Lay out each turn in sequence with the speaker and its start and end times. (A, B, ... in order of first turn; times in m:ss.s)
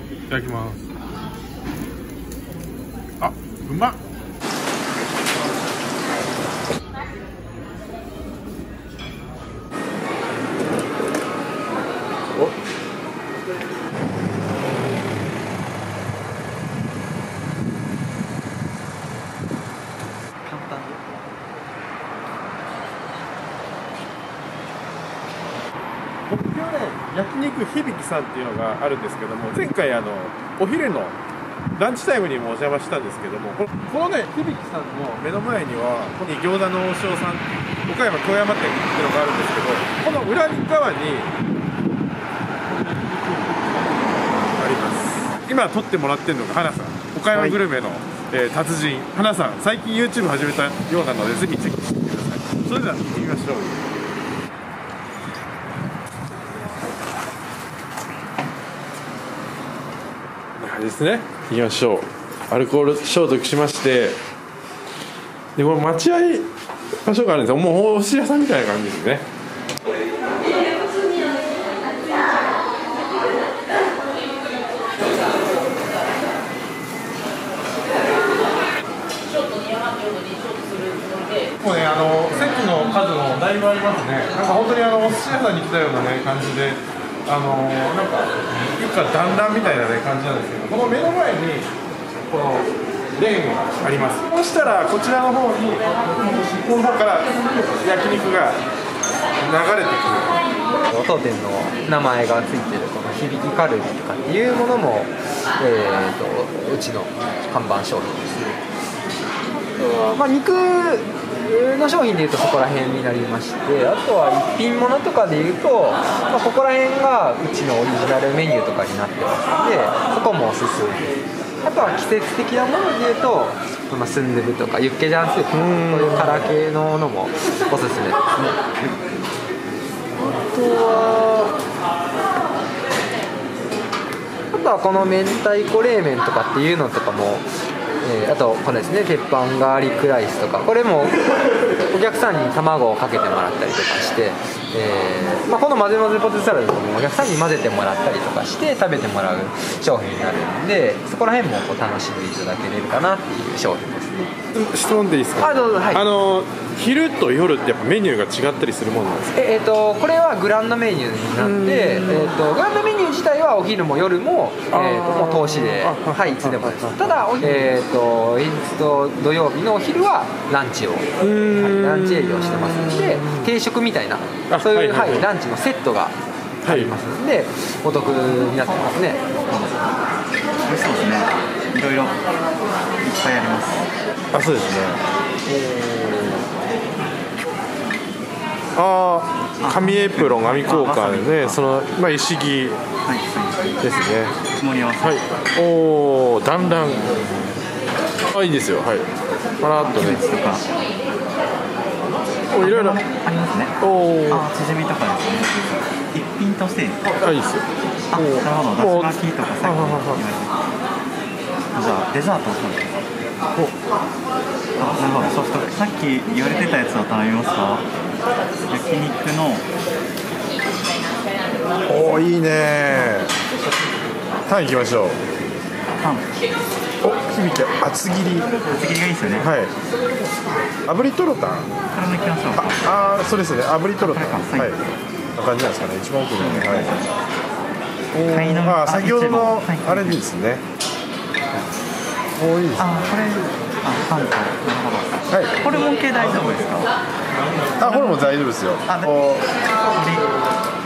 0:00.3-0:00.8 A
0:03.2-0:04.0 A
0:20.4-0:21.2 B
0:26.3-0:31.2 A
0:31.8-0:41.3 A
0:42.6-0:43.9 A
0:44.5-0:53.9 A
1:00.6-1:04.2 A
1:05.6-1:06.5 A
1:07.0-1:09.2 A
1:21.6-1:31.7 A
1:32.2-1:38.6 A
1:39.4-1:40.4 A
1:40.9-1:48.5 C
1:49.8-2:01.1 C
2:01.6-2:08.2 C
2:05.5-2:06.5 A
2:10.2-2:11.5 A
2:10.6-2:11.2 C
2:14.5-2:17.5 C
2:18.0-2:21.1 C
2:21.9-2:34.3 C
2:34.5-2:39.4 A
2:35.4-2:36.0 C
2:39.3-2:59.2 C
2:41.4-2:42.4 A
2:44.7-2:47.7 A
2:51.2-2:53.5 A
2:54.5-2:55.2 A
2:56.6-2:56.9 A
2:59.4-2:59.9 B
3:00.6-3:02.2 B
3:03.0-3:03.9 B
3:04.3-3:06.4 A
3:08.8-3:12.8 A
3:09.6-3:11.6 B
3:13.0-3:13.8 B
3:13.8-3:14.4 A
3:14.5-3:15.2 B
3:15.0-3:17.2 A
3:16.9-3:17.4 B
3:18.3-3:19.1 A
3:19.6-3:20.2 A
3:19.8-3:20.6 B
3:22.5-3:23.0 A
3:22.5-3:23.8 B
3:23.8-3:24.5 A
3:24.3-3:27.0 B
3:27.2-3:30.2 A
3:28.1-3:30.6 B
3:31.7-3:32.9 B
3:34.8-3:37.9 B
3:38.7-3:39.7 B
3:41.8-3:43.3 A
3:44.5-3:45.2 A
3:46.0-3:46.3 B
3:47.0-3:48.5 A
3:48.6-3:49.5 B
3:49.4-3:49.7 A
3:50.8-3:51.7 A
3:51.9-3:52.8 B
3:52.6-3:54.8 A
3:54.0-3:54.8 B
3:55.4-3:57.0 A
3:56.3-3:57.1 B
3:58.1-4:00.6 A
3:58.3-4:00.2 B
4:02.4-4:02.9 A
4:02.8-4:06.9 B
4:05.3-4:05.6 A
4:07.8-4:09.4 A
4:08.8-4:09.1 B
4:09.8-4:10.3 B